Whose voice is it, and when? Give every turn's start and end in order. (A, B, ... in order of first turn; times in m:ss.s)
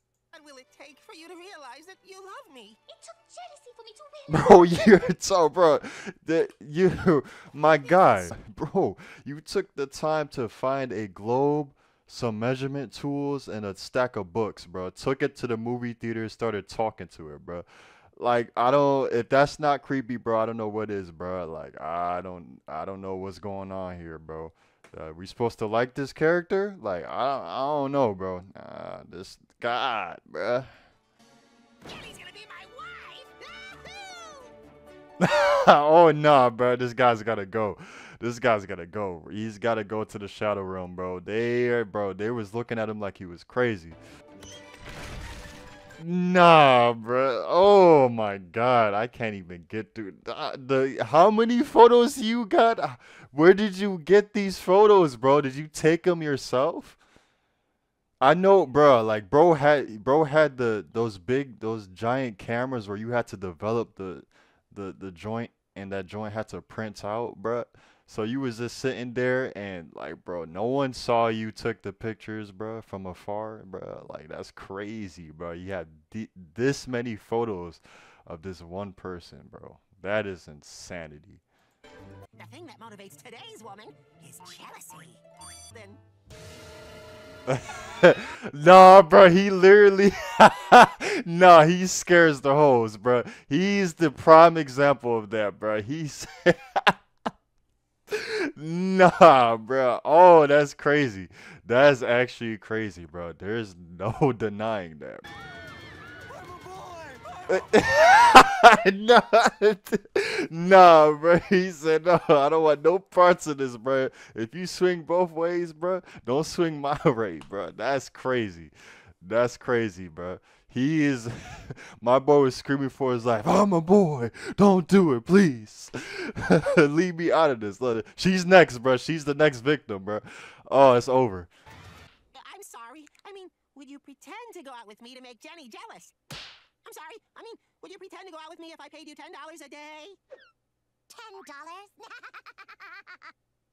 0:00.3-0:02.8 A
0:02.9-0:05.0 B
0:04.3-0:17.7 C
0:07.8-0:08.4 A
0:18.2-0:30.7 C
0:31.9-0:34.5 A
0:35.2-0:44.0 C
0:46.0-0:57.0 C
0:58.2-1:21.4 C
1:22.4-1:25.2 A
1:25.7-1:26.0 A
1:27.5-1:37.0 C
1:38.1-1:45.2 C
1:46.3-1:48.0 A
1:47.5-2:11.5 C
2:12.3-2:16.1 A
2:16.8-2:20.2 A
2:21.1-2:23.3 B